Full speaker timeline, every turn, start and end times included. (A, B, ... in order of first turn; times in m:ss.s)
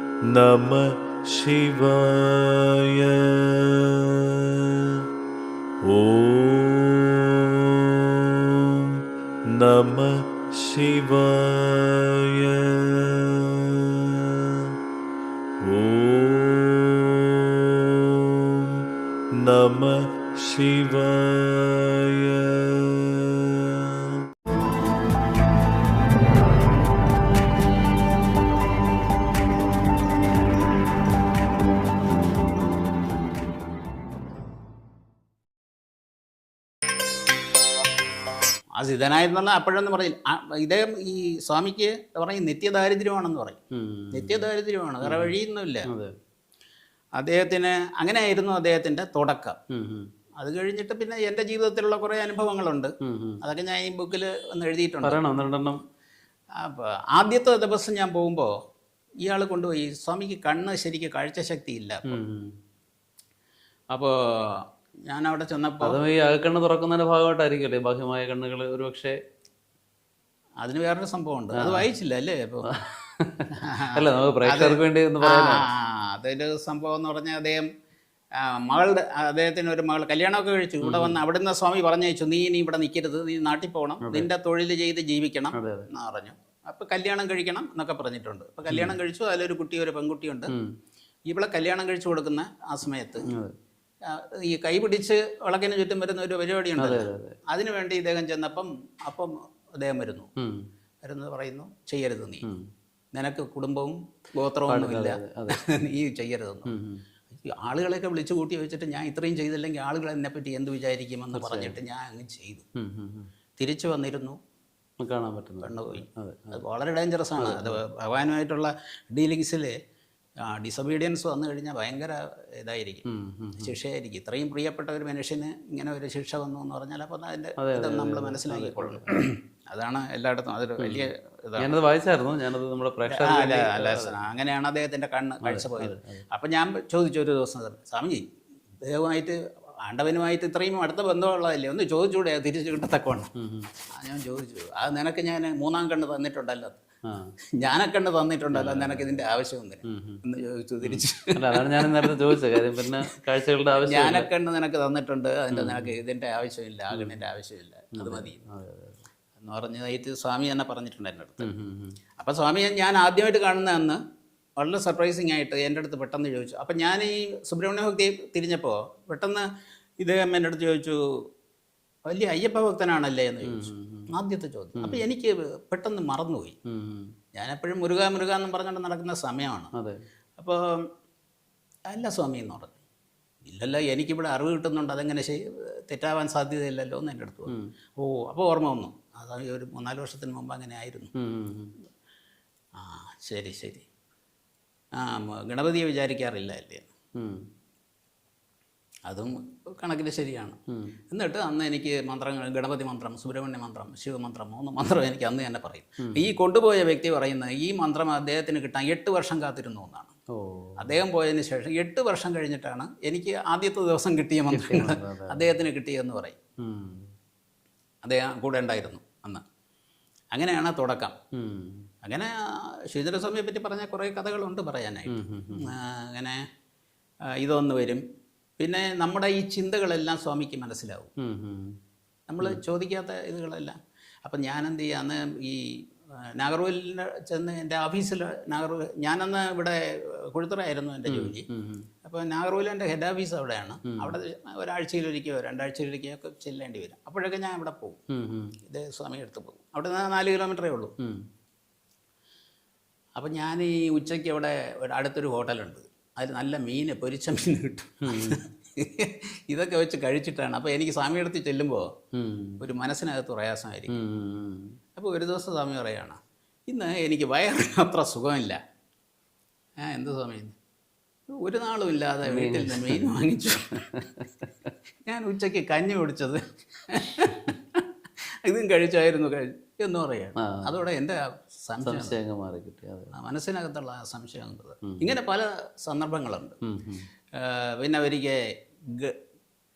0:00.3-0:05.0 A
0:05.8-0:14.8 A
0:15.6-0:24.3 A
0:38.8-0:43.6 B
0:43.7-0:44.5 C
0:44.1-0:45.9 B
0:45.0-0:45.3 C
0:47.2-0:49.6 B
0:49.7-0:50.1 C
0:50.4-0:55.2 B
0:53.0-0:53.4 C
0:55.0-0:55.8 C
0:56.6-0:58.5 B
0:59.2-1:02.1 B
1:02.1-1:02.5 C
1:03.9-1:06.0 B
1:05.8-1:09.2 C
1:10.6-1:12.7 B
1:11.5-1:11.9 C
1:12.7-1:15.7 C
1:13.5-1:17.6 B
1:18.4-1:30.5 B
1:20.8-1:21.2 C
1:24.0-1:24.3 C
1:25.5-1:25.9 C
1:28.7-1:29.0 C
1:30.5-1:30.7 C
1:31.3-1:33.3 B
1:34.1-1:40.3 B
1:36.8-1:37.4 C
1:41.0-1:42.5 B
1:42.4-1:42.7 C
1:43.2-1:46.7 B
1:44.7-1:45.6 C
1:46.7-1:47.0 C
1:47.3-1:52.7 B
1:51.3-1:51.8 C
1:52.8-1:53.3 C
1:53.6-1:54.4 B
1:55.0-1:56.6 C
1:55.6-1:59.7 B
1:57.4-1:57.8 C
2:00.5-2:03.0 B
2:03.1-2:03.7 C
2:03.6-2:11.7 B
2:07.6-2:09.1 C
2:10.8-2:11.1 C
2:11.6-2:14.2 C
2:13.1-2:18.3 B
2:15.4-2:16.2 C
2:18.8-2:23.3 B
2:23.4-2:23.7 C
2:24.0-2:26.8 B
2:27.6-2:32.6 B
2:28.5-2:29.2 C
2:29.9-2:30.2 C
2:30.8-2:34.3 C
2:33.7-2:38.4 B
2:35.5-2:35.9 C
2:36.9-2:37.2 C
2:38.0-2:39.0 C
2:39.4-2:41.5 B
2:41.4-2:42.0 C
2:42.2-2:44.0 B
2:44.6-2:49.5 B
2:50.0-2:51.0 B
2:52.1-2:56.6 B
2:53.4-2:54.1 C
2:54.8-2:55.0 C
2:56.7-2:57.1 C
2:57.4-2:59.7 B
3:00.4-3:00.8 B
3:01.9-3:02.7 B
3:03.4-3:11.1 B
3:11.2-3:11.7 C
3:12.8-3:13.9 B
3:15.0-3:16.9 B
3:17.2-3:17.4 C
3:19.1-3:20.6 B
3:21.1-3:30.1 B
3:26.0-3:26.3 C
3:30.4-3:31.0 C
3:30.8-3:36.4 B
3:34.5-3:35.5 C
3:36.6-3:37.1 C
3:38.0-3:39.4 B
3:40.4-3:41.2 B
3:41.4-3:41.9 C
3:42.0-3:42.3 B
3:42.9-3:46.4 B
3:45.1-3:45.7 C
3:47.4-3:48.0 B
3:48.6-3:51.1 B
3:51.2-3:51.8 C
3:52.3-3:55.8 B
3:56.4-4:01.5 B
4:01.1-4:01.9 C
4:02.0-4:08.0 B
4:03.8-4:04.2 C
4:08.1-4:08.6 C
4:08.7-4:10.9 B
4:13.2-4:21.9 B
4:18.1-4:18.4 C
4:22.2-4:22.6 C
4:22.6-4:24.0 B
4:23.9-4:24.7 C
4:25.0-4:28.6 B
4:29.8-4:30.6 B
4:31.3-4:34.0 B
4:32.2-4:33.2 C
4:33.9-4:34.3 C
4:35.1-4:37.8 B
4:38.4-4:42.2 B
4:40.4-4:40.8 C
4:41.8-4:43.1 C
4:43.1-4:46.6 B
4:44.9-4:45.2 C
4:46.7-4:47.1 C
4:47.4-4:48.4 B